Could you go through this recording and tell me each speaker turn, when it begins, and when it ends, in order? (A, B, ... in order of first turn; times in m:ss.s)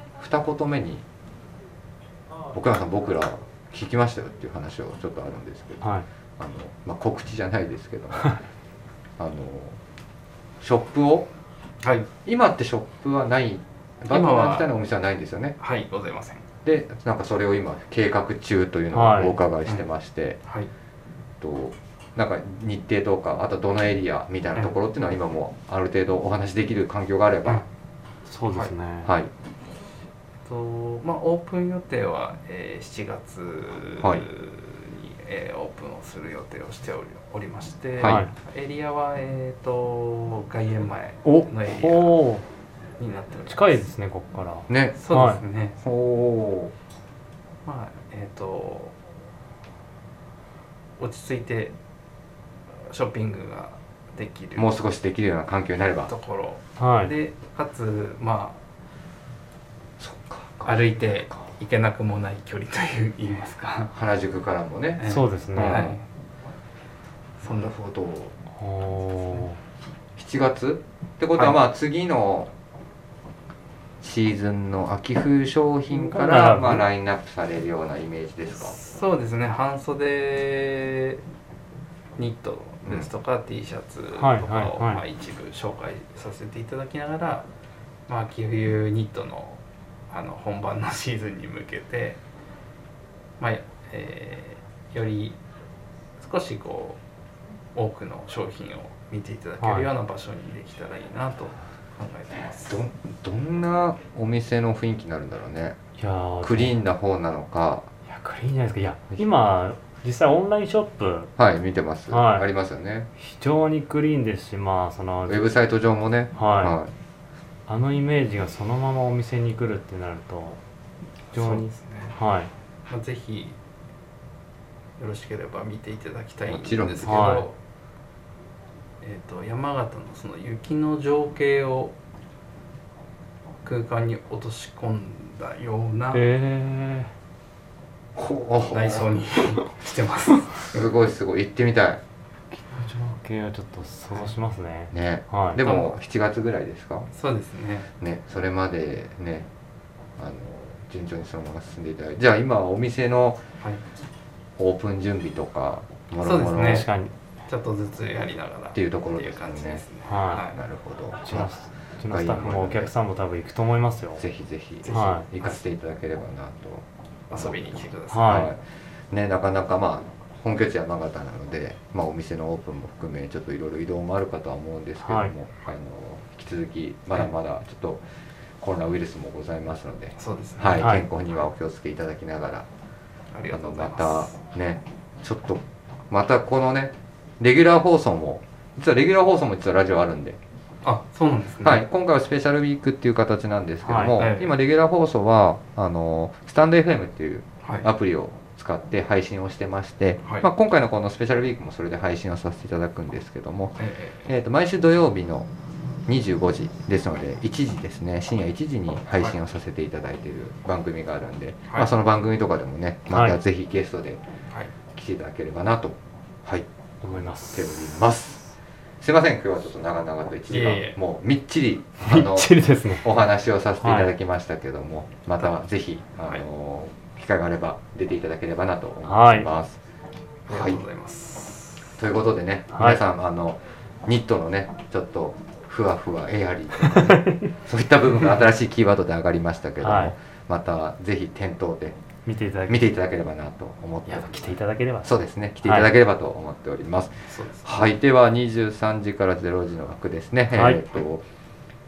0:00.2-0:01.0 A
0:02.5-0:08.4 A
0:09.2-0:09.8 A
0:10.6-0:11.3 A
0:11.8-0:12.1 B
0:12.2-0:15.6 A
0:14.1-0:14.7 B
0:15.6-0:16.4 B
0:16.6-0:20.4 A
0:18.9-0:19.4 C
0:20.4-0:20.7 B
0:21.4-0:27.6 A
0:28.2-0:29.1 C
0:29.0-0:29.3 A
0:30.4-0:42.2 B
0:34.0-0:34.2 A
0:38.0-0:38.2 A
0:38.0-0:38.3 C
0:41.2-0:42.4 C
0:43.0-0:43.7 B
0:43.5-0:45.4 C
0:44.7-0:45.0 A
0:44.9-0:45.8 B
0:45.8-0:46.7 A
0:47.6-0:48.9 B
0:51.0-0:51.7 B
0:52.9-0:54.7 B
0:54.6-0:56.1 A
0:56.1-0:58.6 B
0:56.8-0:57.1 C
1:00.0-1:01.5 A
1:00.6-1:03.9 B
1:03.9-1:06.0 A
1:05.0-1:06.0 B
1:05.0-1:05.9 C
1:07.4-1:07.7 B
1:07.5-1:08.3 A
1:08.6-1:09.6 C
1:10.2-1:12.5 A
1:14.0-1:18.8 A
1:15.9-1:16.8 C
1:18.6-1:21.2 B
1:22.2-1:27.5 B
1:24.2-1:25.0 C
1:28.1-1:32.2 B
1:33.4-1:35.4 B
1:36.2-1:37.0 B
1:37.7-1:42.8 B
1:39.6-1:39.9 C
1:42.7-1:45.8 A
1:46.0-1:46.7 C
1:46.4-1:47.9 A
1:48.0-1:51.3 C
1:51.4-1:53.1 A
1:52.1-1:52.5 C
1:53.2-1:55.5 C
1:55.3-1:56.9 A
1:56.4-1:56.8 C
1:57.7-2:00.6 C
2:01.3-2:02.2 B
2:01.3-2:01.6 C
2:02.1-2:02.5 C
2:02.9-2:03.5 B
2:05.0-2:07.6 B
2:06.5-2:07.1 A
2:07.0-2:07.4 C
2:09.0-2:11.9 B
2:13.6-2:16.2 B
2:16.1-2:17.1 C
2:18.2-2:19.0 A
2:18.7-2:20.8 B
2:20.6-2:22.0 A
2:22.5-2:25.6 C
2:24.9-2:27.1 A
2:27.1-2:27.9 B
2:28.0-2:29.5 A
2:30.2-2:33.4 A
2:34.6-2:36.9 A
2:36.2-2:36.9 B
2:36.5-2:37.1 C
2:37.4-2:40.6 B
2:38.7-2:39.8 A
2:40.0-2:40.5 C
2:40.5-2:42.9 A
2:41.2-2:44.2 C
2:44.2-2:58.0 A
2:44.8-2:45.6 B
2:44.9-2:45.3 C
2:47.3-2:48.5 B
2:48.1-2:48.5 C
2:55.0-2:55.3 C
2:58.6-3:02.7 A
3:00.2-3:00.9 B
3:00.8-3:01.0 C
3:03.3-3:04.4 B
3:03.5-3:10.4 A
3:10.8-3:11.8 B
3:11.6-3:25.5 A
3:13.8-3:14.2 C
3:14.2-3:14.5 B
3:17.6-3:17.9 B
3:23.8-3:24.3 B
3:26.1-3:34.2 A
3:33.1-3:33.4 C
3:34.9-3:36.6 A
3:37.0-3:38.0 C
3:37.4-3:49.8 A
3:40.5-3:41.0 B
3:42.0-3:43.1 C
3:43.8-3:44.1 C
3:49.0-3:49.5 C
3:50.5-3:52.0 B
3:50.5-3:50.8 A
3:52.0-4:02.0 A
3:52.7-3:53.0 C
3:56.9-3:57.5 C
3:59.8-4:00.1 C
4:02.2-4:02.8 C
4:02.7-4:04.4 A
4:04.1-4:05.1 C
4:05.0-4:11.2 A
4:05.6-4:05.9 C
4:07.3-4:07.9 B
4:10.5-4:10.8 C